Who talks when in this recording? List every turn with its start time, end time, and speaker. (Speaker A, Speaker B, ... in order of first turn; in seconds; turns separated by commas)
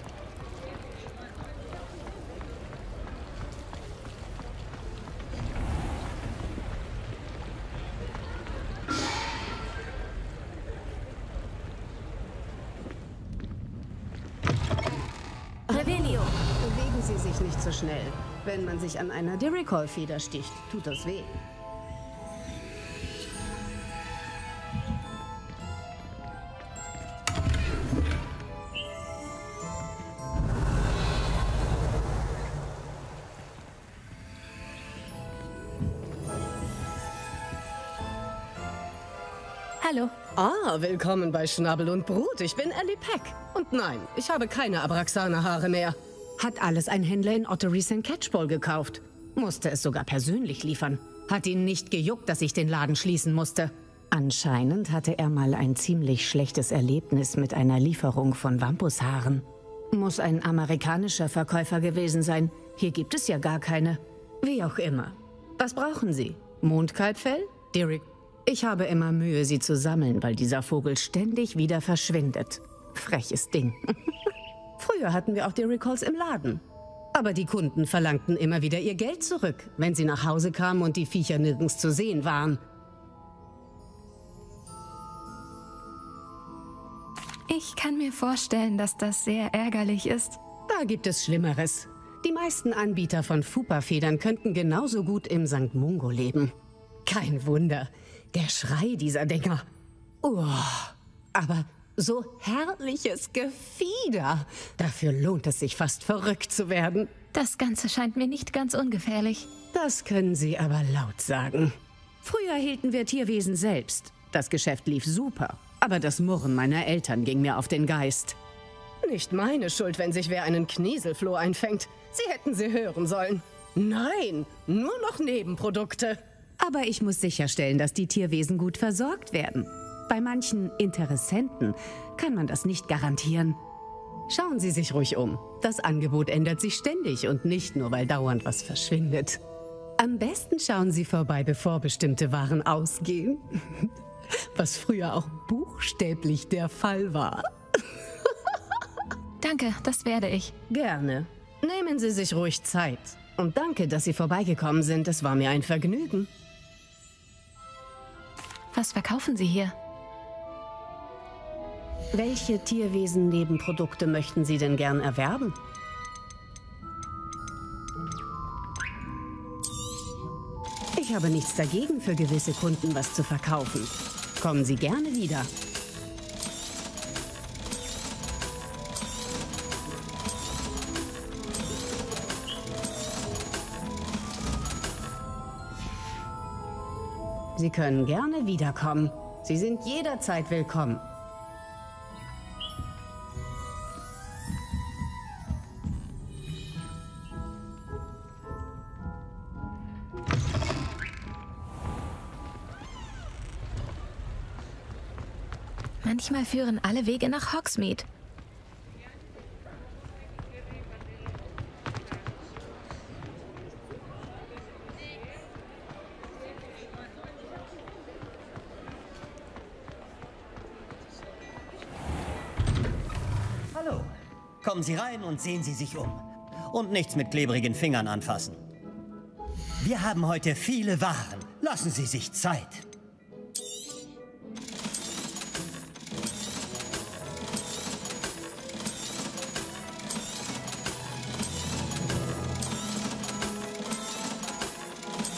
Speaker A: 15.7-21.4, Speaker A: 39.8-74.0, Speaker A: 74.8-76.6, Speaker A: 77.1-82.6, Speaker B: 87.5-90.4, Speaker A: 90.7-96.5, Speaker A: 97.0-99.7, Speaker A: 100.2-107.1, Speaker B: 107.3-109.5, Speaker A: 109.7-118.4, Speaker A: 119.0-133.6, Speaker A: 134.3-139.4, Speaker A: 140.0-143.9, Speaker A: 144.5-147.5, Speaker B: 149.4-150.5, Speaker A: 150.7-156.3, Speaker B: 158.7-159.7, Speaker A: 162.1-165.6, Speaker A: 170.9-175.5, Speaker A: 187.6-191.1, Speaker B: 206.0-208.1, Speaker C: 223.7-228.6, Speaker C: 229.8-232.8